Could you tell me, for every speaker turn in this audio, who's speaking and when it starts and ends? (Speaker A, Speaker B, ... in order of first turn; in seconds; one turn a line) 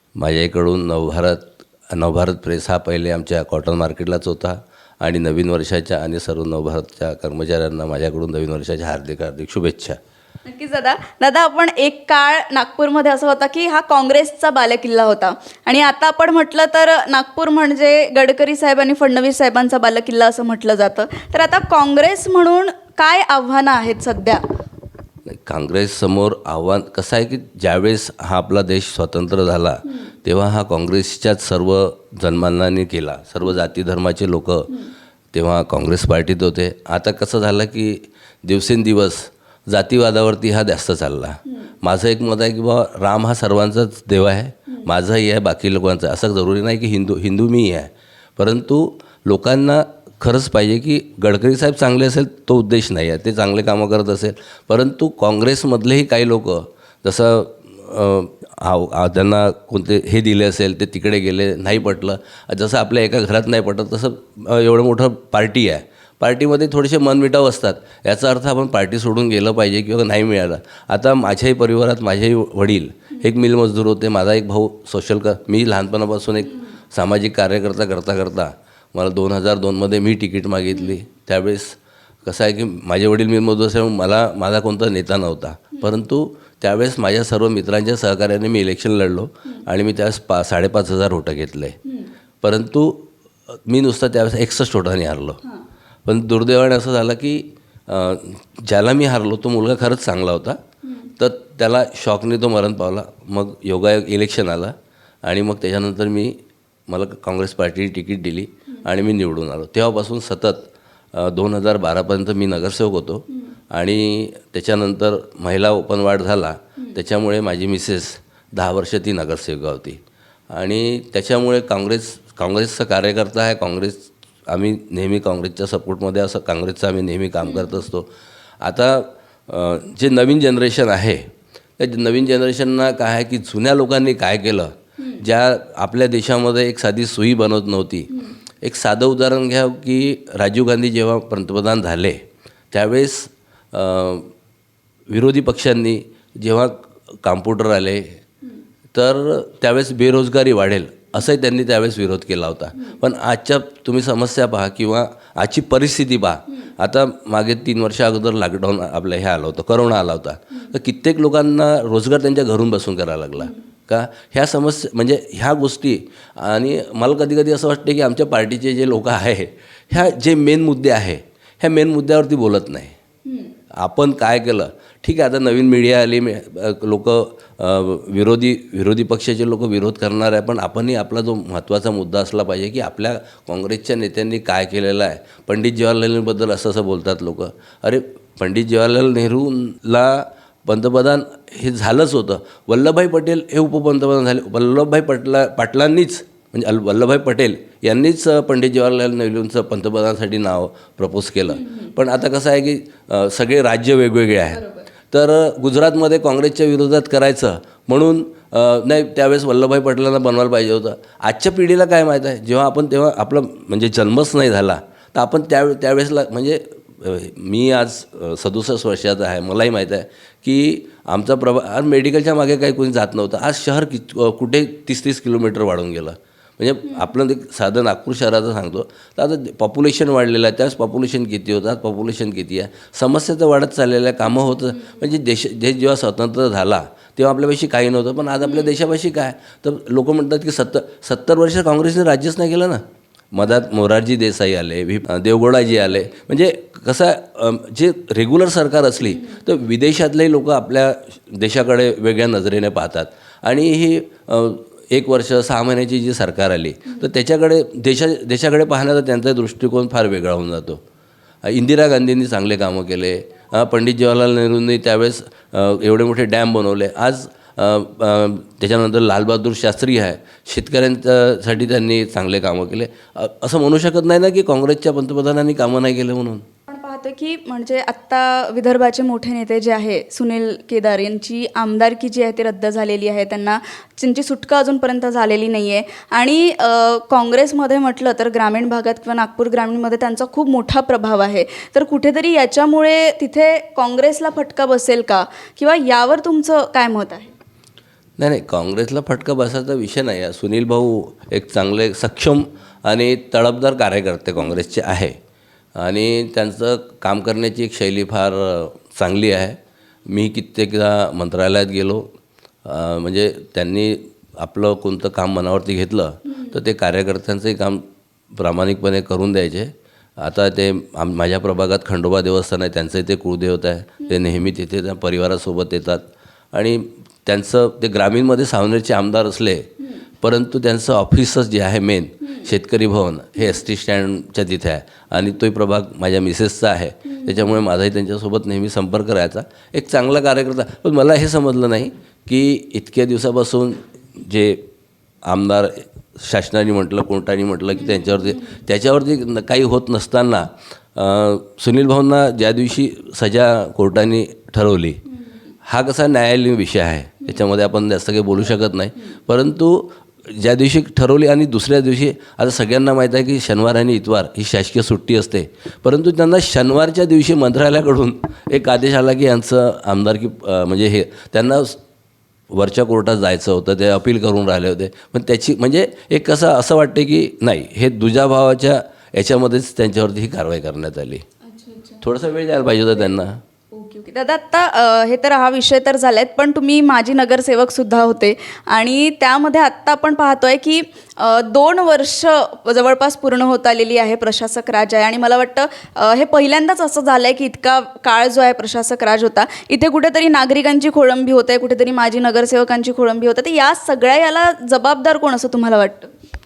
Speaker A: 0.1-10.0
Speaker B: 10.4-24.4
Speaker A: 25.2-34.8
Speaker A: 35.3-91.8
Speaker A: 92.4-93.1
Speaker A: 93.7-95.4
Speaker A: 96.0-100.6
Speaker A: 101.2-120.0
Speaker A: 120.5-128.1
Speaker B: 127.4-127.8
Speaker A: 128.6-138.1
Speaker A: 138.6-142.2
Speaker A: 142.7-144.3
Speaker A: 145.1-148.2
Speaker A: 148.9-172.9
Speaker B: 173.2-173.5
Speaker A: 173.7-260.8
Speaker B: 204.6-204.8
Speaker A: 261.4-276.4
Speaker B: 276.7-297.3
Speaker A: 298.2-305.1
Speaker A: 305.8-312.1
Speaker A: 312.6-329.7
Speaker A: 330.2-344.6
Speaker B: 337.1-337.6
Speaker A: 345.2-355.0
Speaker B: 347.8-348.4
Speaker A: 355.6-371.8
Speaker A: 372.5-381.2
Speaker B: 381.4-382.0
Speaker A: 382.0-383.4
Speaker B: 383.7-406.1